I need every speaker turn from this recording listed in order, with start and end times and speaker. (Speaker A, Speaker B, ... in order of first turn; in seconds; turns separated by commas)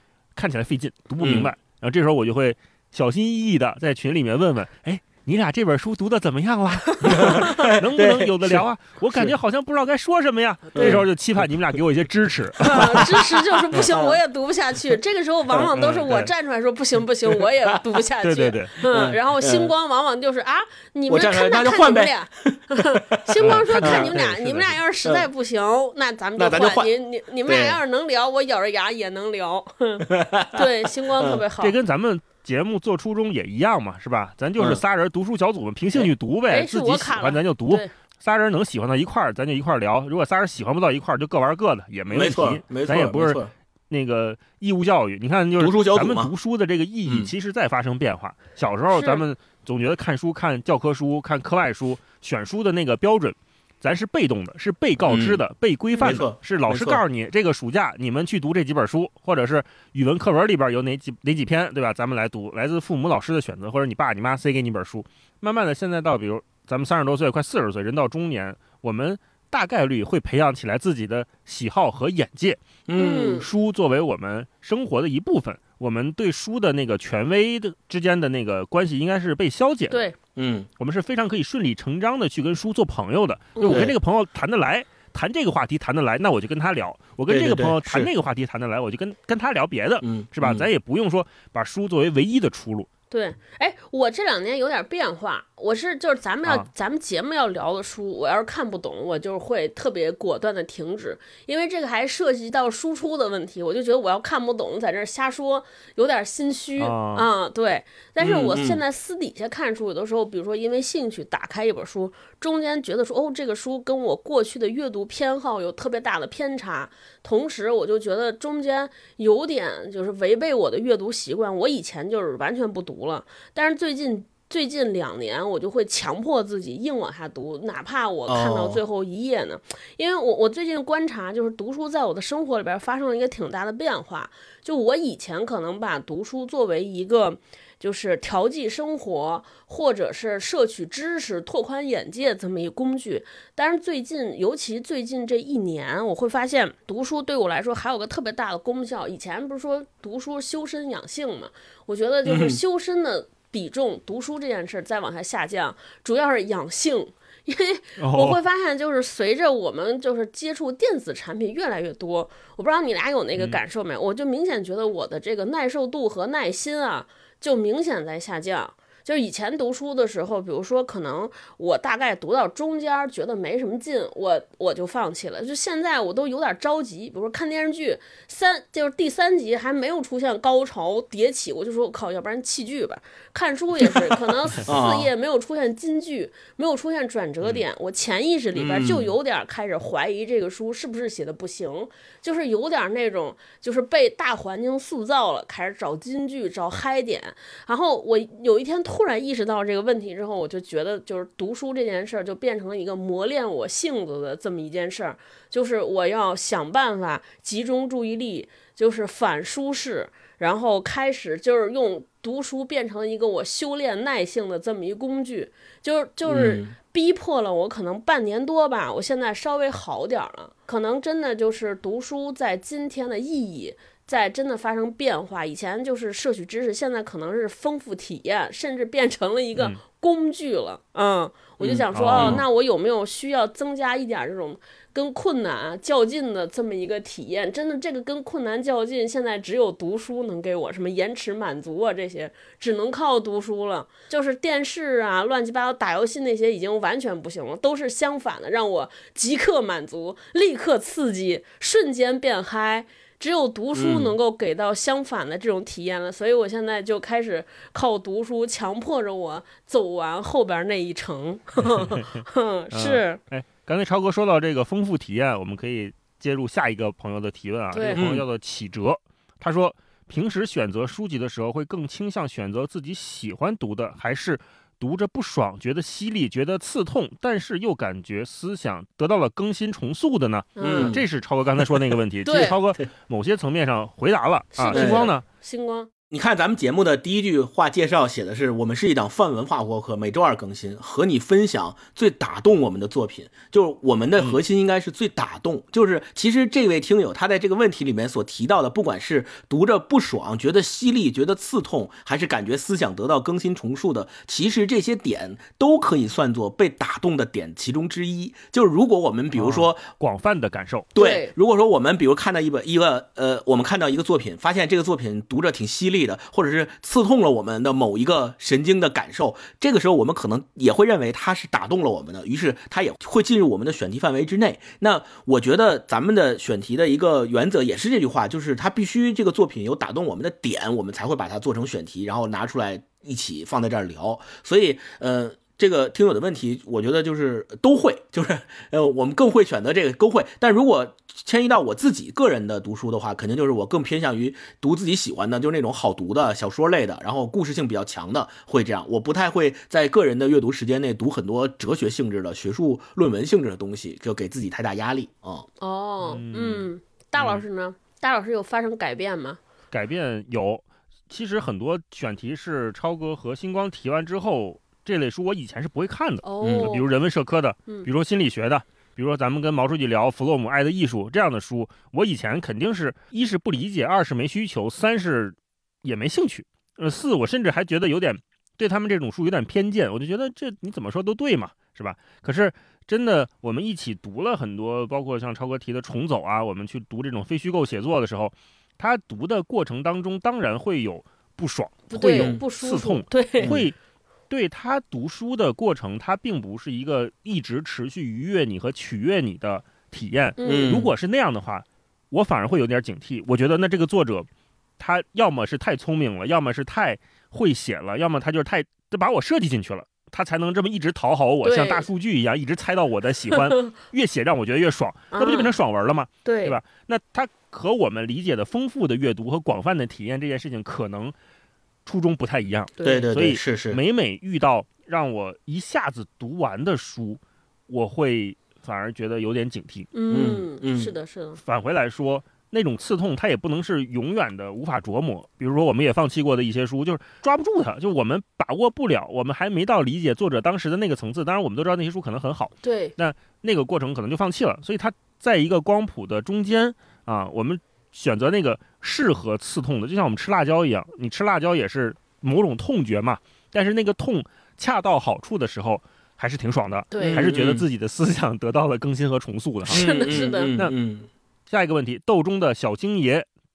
Speaker A: 0.3-13.1, Speaker B: 1.2-1.5, Speaker B: 7.1-8.6, Speaker C: 7.2-7.5, Speaker B: 10.8-11.0, Speaker C: 10.8-11.0, Speaker B: 12.7-14.2, Speaker C: 12.7-31.8, Speaker A: 15.7-16.3, Speaker A: 18.2-18.8, Speaker B: 18.9-19.7, Speaker B: 21.1-24.3, Speaker A: 23.4-24.8, Speaker B: 26.4-26.9, Speaker B: 27.5-27.8, Speaker B: 30.1-31.4, Speaker A: 31.6-72.6, Speaker C: 36.5-37.9, Speaker B: 42.1-43.5, Speaker B: 45.6-46.3, Speaker C: 48.9-49.2, Speaker B: 55.1-55.4, Speaker C: 56.0-56.2, Speaker B: 56.0-57.0, Speaker B: 72.9-73.5, Speaker C: 73.0-73.5, Speaker A: 73.4-80.0, Speaker C: 79.9-80.2, Speaker B: 80.4-80.7, Speaker A: 80.8-92.9, Speaker C: 83.6-83.9, Speaker B: 83.7-83.9, Speaker B: 87.3-88.1, Speaker B: 90.0-90.7, Speaker C: 93.1-263.2, Speaker A: 106.8-107.3, Speaker B: 108.2-108.8, Speaker B: 128.3-128.8, Speaker B: 152.2-152.6, Speaker A: 158.0-158.4, Speaker B: 184.7-185.1, Speaker B: 188.6-189.1, Speaker B: 216.3-216.7, Speaker B: 231.6-232.4, Speaker A: 231.9-232.4, Speaker B: 253.7-254.2, Speaker A: 261.8-262.2, Speaker A: 262.7-285.2, Speaker C: 267.7-268.0, Speaker B: 267.9-268.2, Speaker C: 280.6-281.0, Speaker B: 280.6-281.0, Speaker C: 282.3-282.6, Speaker C: 284.6-285.9, Speaker B: 284.7-285.1, Speaker B: 286.1-309.9, Speaker A: 309.3-310.9, Speaker B: 310.9-355.5, Speaker C: 311.0-311.3, Speaker C: 355.6-359.4, Speaker A: 356.0-357.4, Speaker A: 359.7-393.8, Speaker C: 366.2-366.9, Speaker B: 366.4-366.7, Speaker C: 391.9-393.6, Speaker B: 392.0-392.4, Speaker A: 394.3-404.3, Speaker C: 400.4-400.7, Speaker B: 400.4-400.9, Speaker A: 404.8-421.1, Speaker C: 411.4-411.9, Speaker C: 415.1-415.5, Speaker C: 416.2-416.6, Speaker A: 421.9-429.9, Speaker C: 422.8-423.1, Speaker B: 422.8-423.8, Speaker C: 429.9-431.4, Speaker B: 430.1-430.9, Speaker A: 431.4-460.8, Speaker C: 442.6-442.9, Speaker C: 456.9-457.3, Speaker B: 457.0-457.6, Speaker B: 459.7-461.1, Speaker C: 459.7-460.6, Speaker A: 461.5-463.3